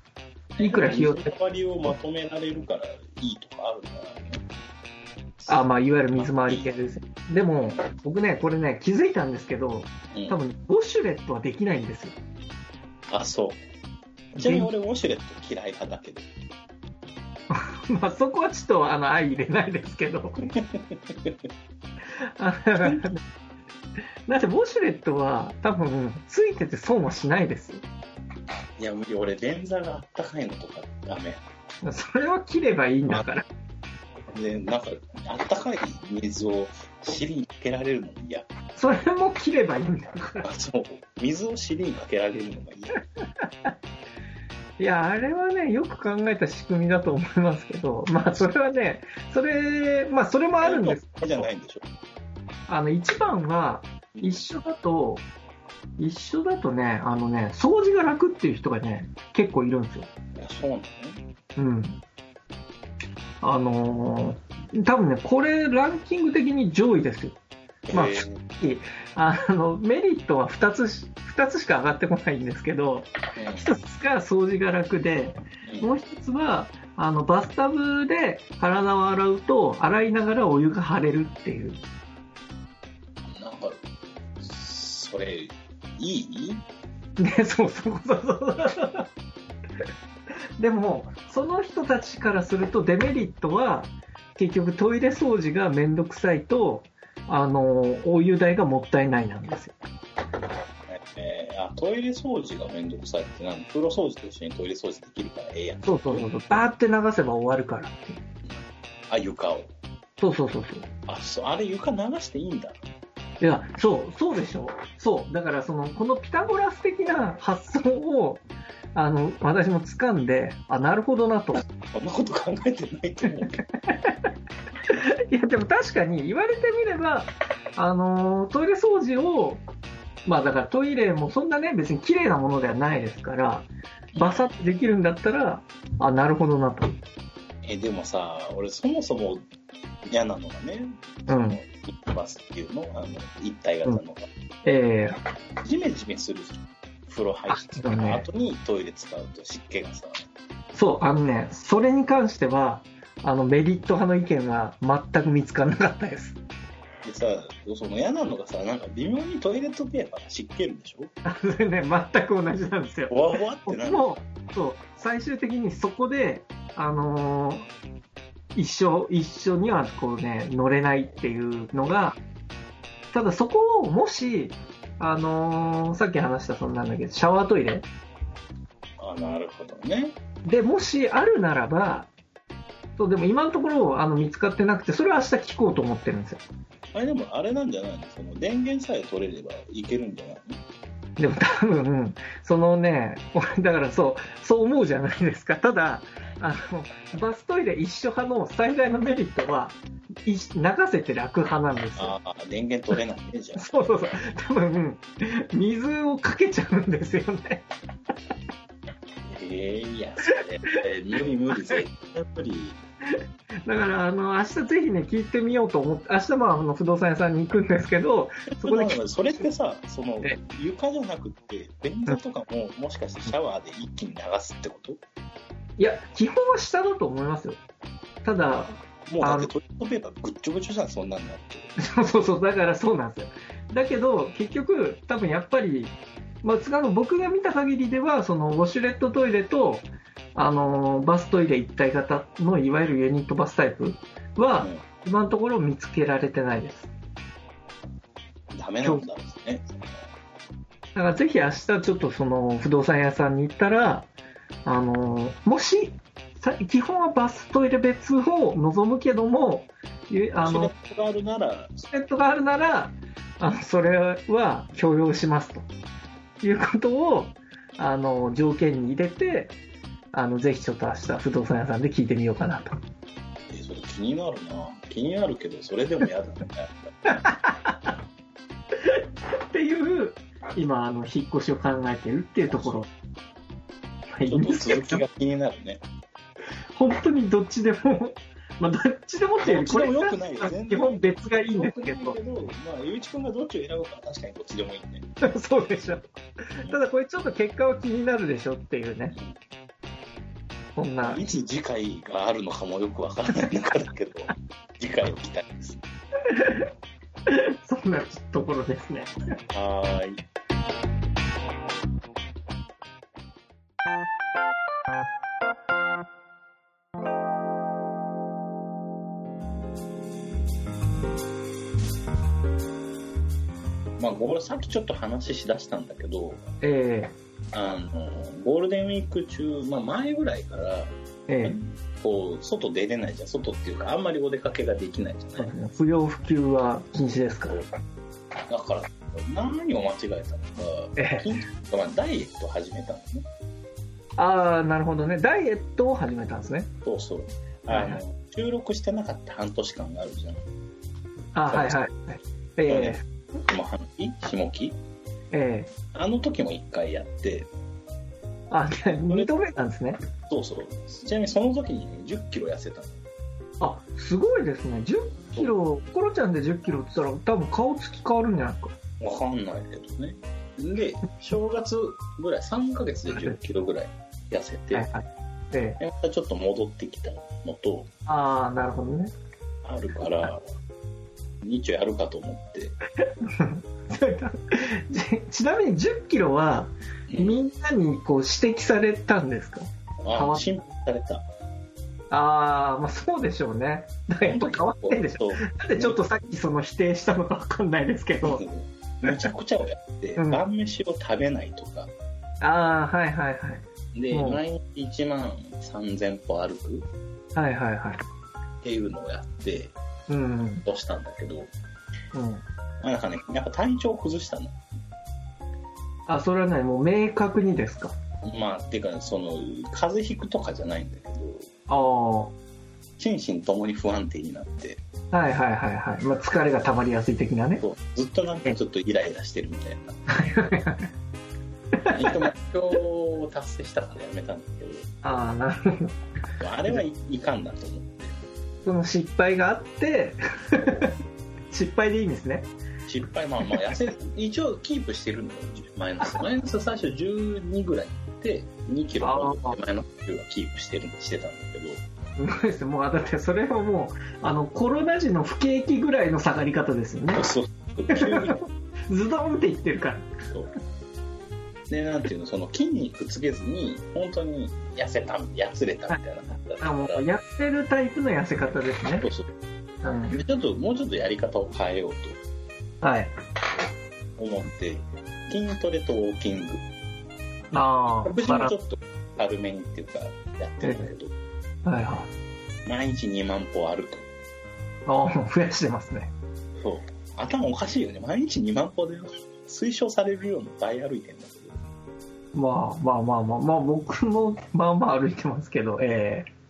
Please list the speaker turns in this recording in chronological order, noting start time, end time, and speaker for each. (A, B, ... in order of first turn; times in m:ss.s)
0:00.6-0:04.4 A
0:00.6-0:01.3 B
0:05.5-0:12.2 B
0:06.1-0:06.7 A
0:10.1-0:10.4 A
0:13.1-0:13.6 A
0:14.3-0:16.3 A
0:14.4-0:14.7 B
0:17.5-0:20.4 B
0:20.5-0:21.4 A
0:22.4-0:23.2 B
0:22.8-0:23.1 A
0:24.3-0:27.8 B
0:28.8-0:31.4 A
0:31.8-0:33.4 B
0:34.3-0:38.5 A
0:38.8-0:40.5 B
0:40.4-0:43.0 A
0:43.4-0:43.7 B
0:44.8-0:51.5 B
0:50.6-0:51.8 A
0:52.7-0:55.2 B
0:54.1-0:54.4 A
0:56.0-1:00.1 B
1:00.4-1:01.2 A
1:01.6-1:02.0 B
1:03.4-1:07.4 B
1:07.9-1:08.4 A
1:07.9-1:21.8 B
1:13.4-1:13.7 A
1:15.6-1:15.9 A
1:23.3-1:23.8 A
1:24.4-1:26.6 A
1:27.2-1:29.1 B
1:30.6-1:39.8 B
1:40.9-1:46.3 A
1:45.8-1:48.2 B
1:49.1-1:49.7 A
1:50.2-1:50.9 B
1:51.0-1:52.8 A
1:53.4-1:58.4 B
1:58.9-2:01.6 B
2:01.5-2:03.6 A
2:03.9-2:04.1 B
2:04.9-2:09.6 B
2:10.2-2:17.0 B
2:14.1-2:14.6 A
2:17.6-2:19.4 A
2:20.0-2:24.3 A
2:21.3-2:21.6 B
2:24.6-2:25.2 B
2:25.6-2:30.2 A
2:27.5-2:28.2 B
2:30.7-2:36.4 B
2:37.0-2:41.1 A
2:41.2-2:47.7 B
2:43.1-2:44.2 A
2:48.6-2:52.2 B
2:53.1-2:57.9 B
2:59.0-3:00.2 A
3:00.4-3:02.1 B
3:03.0-3:06.4 B
3:06.9-3:10.6 A
3:11.2-3:22.2 B
3:22.0-3:23.7 A
3:23.5-3:27.6 B
3:29.2-3:32.8 A
3:33.6-3:39.0 B
3:38.6-3:45.0 A
3:45.8-3:47.6 B
3:48.2-3:49.5 B
3:49.1-3:51.7 A
3:51.8-4:06.9 B
4:08.5-4:09.7 A
4:10.9-4:14.1 B
4:14.6-4:20.7 B
4:20.4-4:21.9 A
4:21.9-4:25.6 B
4:26.4-4:29.5 B
4:30.1-4:32.8 B
4:33.5-4:37.2 A
4:37.1-4:37.9 B
4:38.8-4:42.9 B
4:42.5-4:42.8 A
4:44.1-4:45.0 B
4:44.2-4:45.8 A
4:46.8-4:52.2 B
4:49.4-4:55.0 A
4:55.2-4:59.2 B
5:00.8-5:01.2 B
5:01.0-5:05.8 A
5:06.2-5:06.7 B
5:07.3-5:09.1 B
5:09.5-5:10.2 A
5:24.0-5:26.4 A
5:26.6-5:27.1 B
5:27.5-5:35.5 A
5:31.3-5:31.6 B
5:35.4-5:37.6 B
5:38.5-5:43.2 A
5:41.0-5:41.3 B
5:44.2-5:46.7 B
5:46.8-5:50.4 A
5:47.7-5:48.0 B
5:51.3-5:53.0 B
5:51.5-5:51.8 A
5:52.7-5:54.8 A
5:55.3-5:55.7 B
5:55.9-5:57.5 A
5:58.5-6:00.0 B
5:59.1-5:59.5 A
6:00.3-6:03.0 A
6:03.6-6:08.8 B
6:09.0-6:14.9 A
6:14.7-6:15.8 B
6:15.8-6:17.9 A
6:18.1-6:19.1 B
6:19.6-6:20.4 A
6:21.4-6:22.8 A
6:23.0-6:30.4 B
6:27.1-6:27.4 A
6:30.0-6:31.2 A
6:32.1-6:38.4 B
6:34.2-6:36.0 A
6:38.2-6:41.9 A
6:40.2-6:40.4 B
6:42.4-6:44.4 B
6:43.9-6:46.8 A
6:47.3-6:48.0 B
6:48.6-6:49.7 A
6:50.1-6:50.6 B
6:50.6-6:51.5 A
6:52.1-6:52.4 B
6:52.8-6:54.6 A
6:56.1-6:58.0 B
6:58.2-7:01.5 A
7:01.7-7:02.3 B
7:03.0-7:04.8 A
7:05.1-7:07.6 B
7:07.6-7:10.0 A
7:10.1-7:10.9 B
7:11.8-7:12.2 B
7:11.9-7:14.9 A
7:15.0-7:15.9 B
7:16.4-7:18.2 A
7:18.6-7:20.9 B
7:20.6-7:20.9 A
7:21.5-7:22.5 B
7:22.8-7:31.8 A
7:29.0-7:29.6 B
7:32.2-7:37.3 B
7:37.1-7:38.4 A
7:37.9-7:40.1 B
7:41.7-7:47.1 A
7:46.6-7:49.1 B
7:49.0-7:49.3 A
7:49.8-7:50.2 B
7:50.1-7:52.2 A
7:52.8-7:53.1 B
7:54.2-7:56.6 A
7:57.5-7:58.5 B
7:57.8-8:01.1 A
8:01.6-8:02.1 B
8:02.6-8:04.1 A
8:04.8-8:06.1 B
8:06.6-8:11.6 A
8:12.3-8:16.3 B